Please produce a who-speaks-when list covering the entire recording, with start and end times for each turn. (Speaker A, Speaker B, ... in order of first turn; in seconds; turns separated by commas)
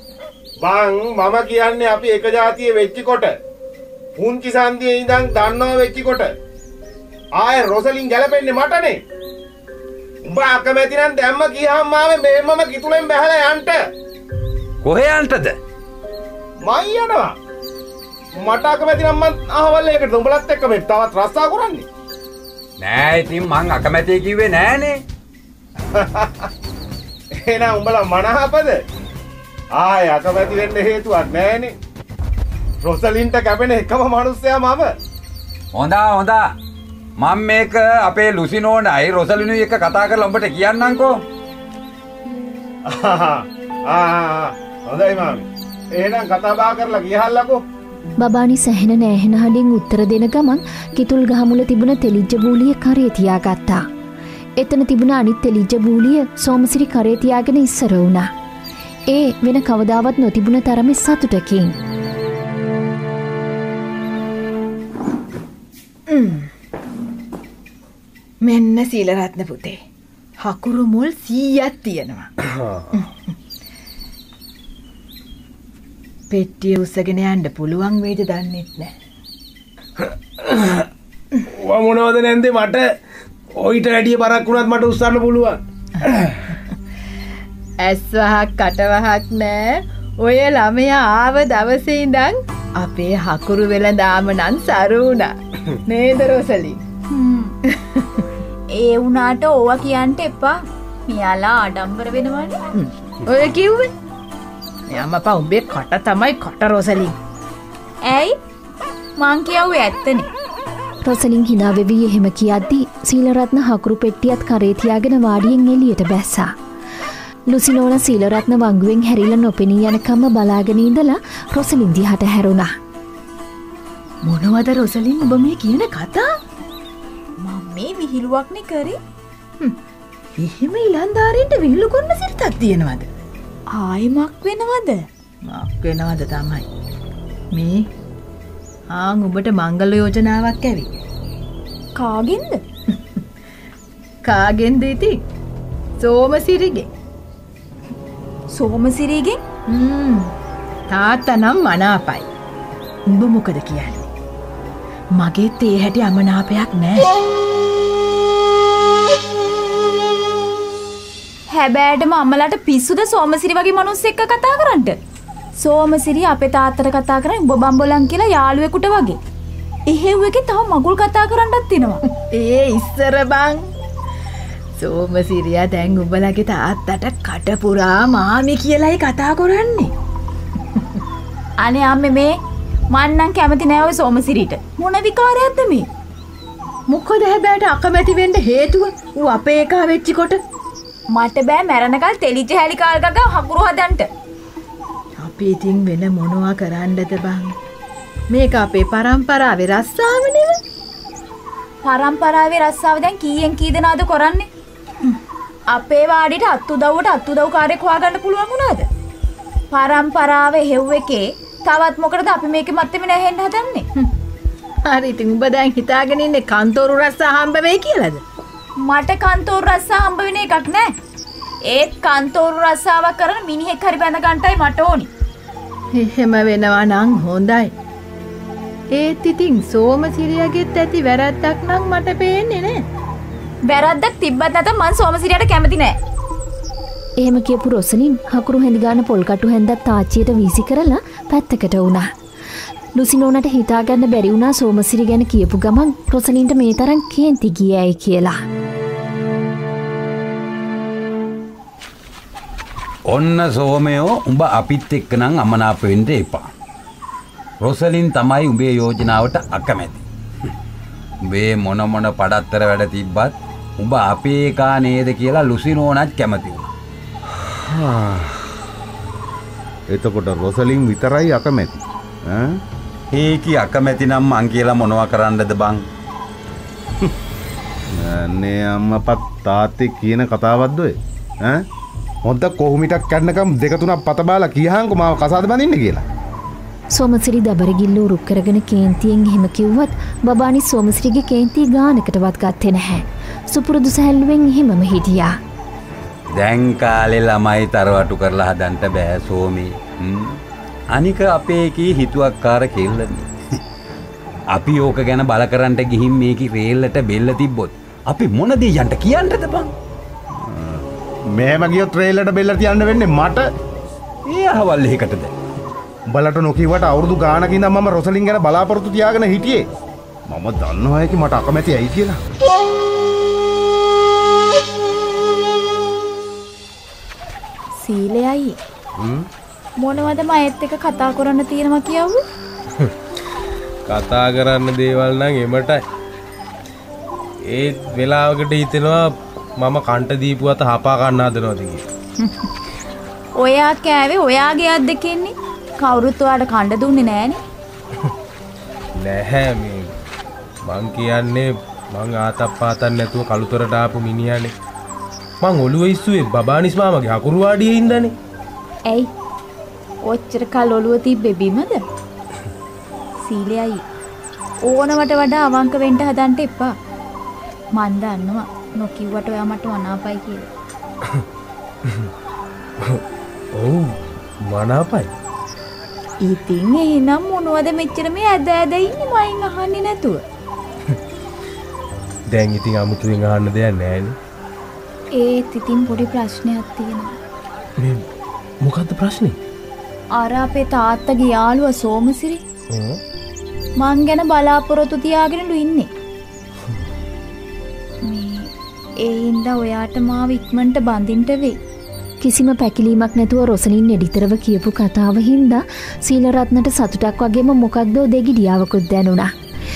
Speaker A: 0.6-3.4, Speaker A: 4.2-6.3, Speaker A: 7.4-9.0, Speaker A: 10.2-13.8, Speaker B: 14.8-15.6, Speaker A: 16.6-17.3, Speaker A: 18.4-21.9, Speaker B: 22.8-25.0, Speaker A: 25.9-26.5, Speaker A: 27.4-28.8, Speaker A: 29.7-31.8, Speaker A: 32.8-35.0, Speaker B: 35.7-36.5, Speaker B: 37.2-41.2, Speaker A: 42.9-47.6, Speaker C: 48.2-53.8, Speaker C: 54.6-58.3, Speaker C: 59.1-61.8, Speaker D: 66.1-66.5, Speaker D: 68.4-69.8, Speaker D: 70.4-72.3, Speaker E: 72.4-72.9, Speaker D: 72.9-73.3, Speaker D: 76.3-78.9, Speaker E: 80.0-80.9, Speaker E: 81.4-82.9, Speaker E: 83.6-86.4, Speaker D: 87.8-95.3, Speaker D: 95.9-96.8, Speaker F: 97.1-97.6, Speaker D: 97.7-98.2, Speaker F: 98.7-102.6, Speaker D: 102.8-103.9, Speaker D: 104.9-107.2, Speaker F: 108.0-108.4, Speaker F: 109.2-110.3, Speaker C: 111.0-116.5, Speaker C: 117.5-122.7, Speaker D: 124.2-126.3, Speaker F: 127.4-129.0, Speaker D: 130.4-133.1, Speaker F: 133.7-135.1, Speaker D: 135.5-136.7, Speaker D: 137.5-137.9, Speaker D: 138.9-140.9, Speaker F: 142.0-142.6, Speaker D: 144.2-145.2, Speaker D: 146.0-146.9, Speaker F: 148.5-149.4, Speaker D: 149.7-150.3, Speaker D: 150.9-152.3, Speaker D: 153.1-154.1, Speaker D: 155.2-157.1, Speaker F: 161.5-165.0, Speaker F: 165.6-169.2, Speaker F: 169.9-172.0, Speaker D: 172.3-173.6, Speaker D: 174.8-179.9, Speaker F: 181.6-182.4, Speaker F: 182.9-185.9, Speaker D: 186.9-190.4, Speaker F: 191.1-194.1, Speaker D: 195.2-197.6, Speaker D: 198.3-200.6, Speaker F: 201.8-204.5, Speaker F: 205.7-208.9, Speaker F: 209.7-213.9, Speaker D: 214.9-218.2, Speaker F: 218.8-220.9, Speaker F: 221.7-225.1, Speaker D: 225.9-227.7, Speaker D: 228.9-232.8, Speaker F: 233.7-236.0, Speaker C: 237.2-242.1, Speaker C: 243.0-248.4, Speaker B: 253.1-256.5, Speaker B: 257.6-260.0, Speaker B: 261.2-266.7, Speaker A: 267.4-268.5, Speaker A: 269.9-272.6, Speaker B: 273.1-275.9, Speaker A: 277.9-281.7, Speaker A: 282.2-286.0, Speaker C: 286.9-295.4, Speaker B: 296.3-300.4, Speaker B: 300.9-303.3, Speaker B: 304.5-309.7, Speaker A: 310.3-313.5, Speaker B: 314.3-315.3, Speaker A: 316.1-319.7, Speaker A: 320.3-322.2, Speaker F: 327.8-328.6, Speaker F: 329.8-332.2, Speaker E: 333.9-335.8, Speaker E: 337.5-341.8, Speaker F: 342.2-342.5, Speaker F: 343.4-347.4, Speaker E: 349.0-349.9, Speaker E: 350.6-354.5, Speaker E: 355.4-358.1, Speaker F: 358.9-359.1, Speaker F: 360.0-361.8, Speaker F: 363.2-363.8, Speaker F: 364.7-366.7, Speaker F: 367.8-370.5, Speaker E: 373.6-375.1, Speaker F: 376.2-380.2, Speaker E: 382.3-384.1, Speaker F: 385.1-387.1, Speaker E: 387.8-388.1, Speaker E: 388.6-389.4, Speaker F: 390.1-392.4, Speaker E: 392.7-393.0, Speaker F: 393.8-395.9, Speaker F: 398.0-401.6, Speaker C: 402.2-409.3